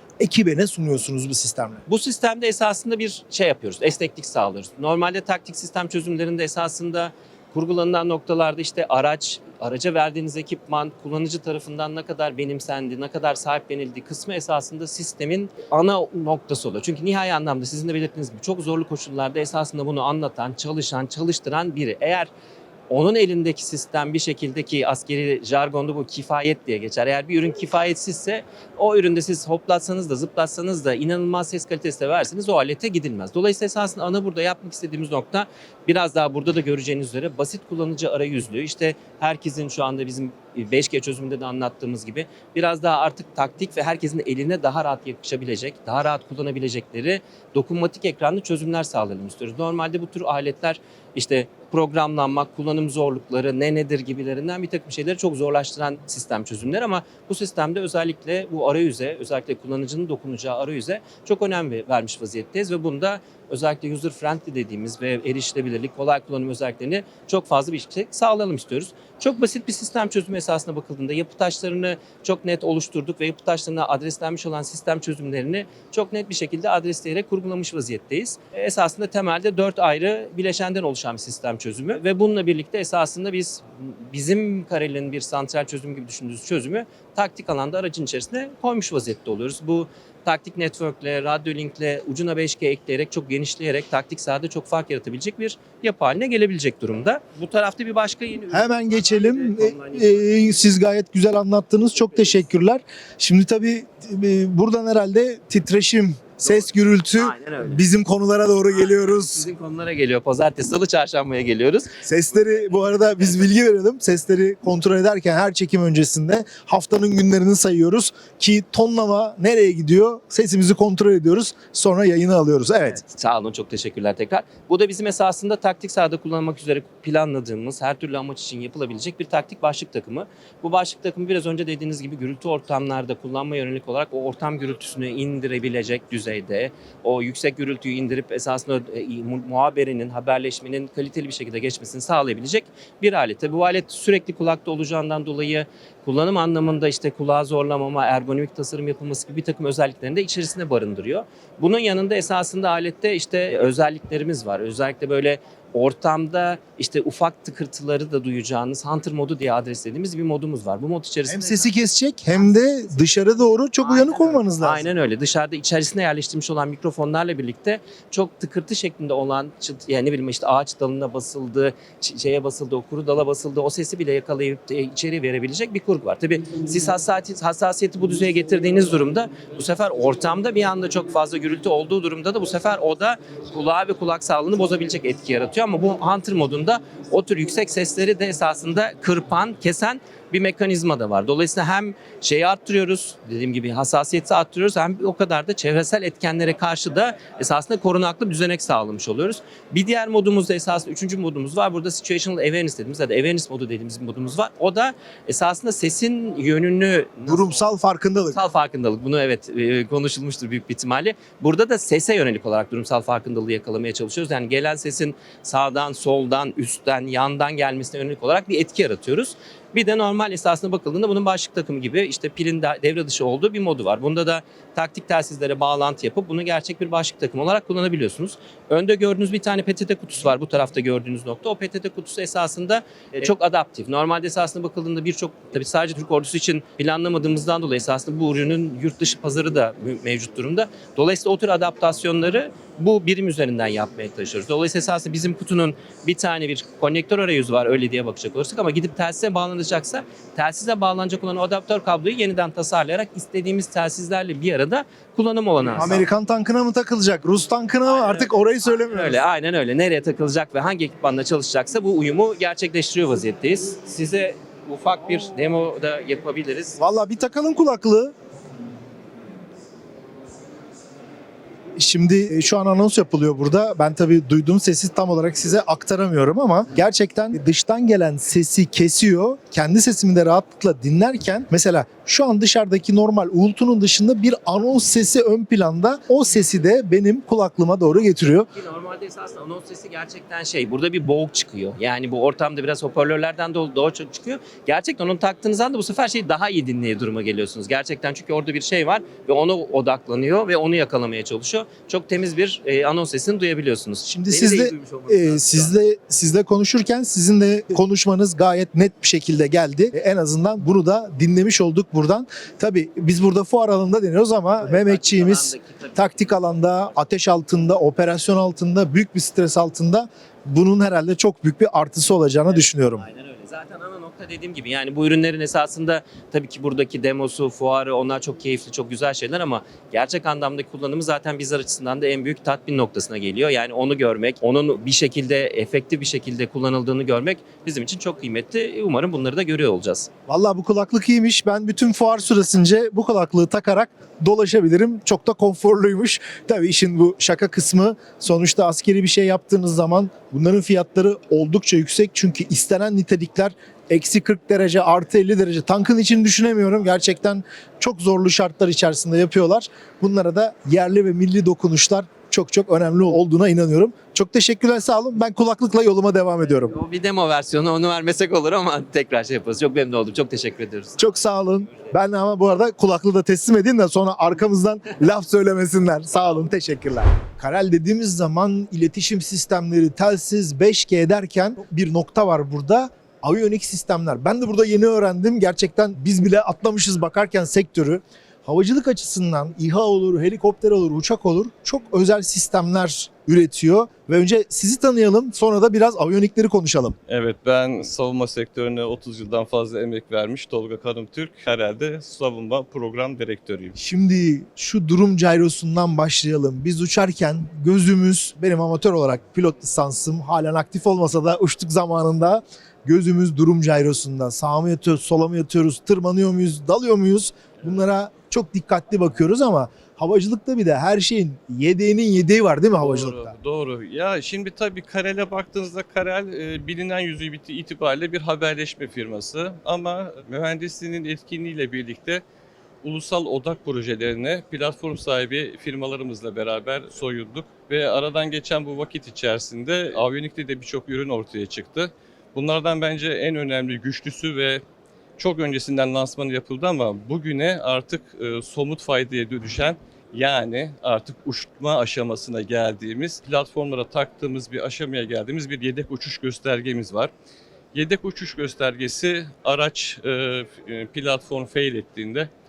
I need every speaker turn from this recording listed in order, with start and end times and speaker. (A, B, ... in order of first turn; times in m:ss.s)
0:00.2-0:01.8 A
0:01.9-0:22.3 B
0:22.9-1:40.7 B
1:38.5-1:49.5 A
1:46.4-1:47.8 B
1:48.7-1:53.3 B
1:52.0-2:03.0 A
2:02.9-2:41.7 B
2:41.2-2:44.9 A
2:42.3-2:43.0 B
2:43.8-3:27.6 B
3:27.3-3:28.4 A
3:28.3-4:16.1 B
4:15.8-4:19.2 A
4:17.8-4:26.8 B
4:26.8-4:28.1 A
4:31.8-4:48.5 A
4:48.5-5:05.8 B
5:04.1-5:23.0 A
5:14.6-5:16.9 B
5:22.5-5:40.1 B
5:40.3-6:06.8 A
6:06.5-6:11.0 B
6:11.0-6:37.0 A
6:37.1-6:43.8 C
6:43.8-7:03.3 A
7:02.8-7:12.2 C
7:12.8-7:24.6 C
7:25.2-7:37.1 C
7:37.7-7:42.3 C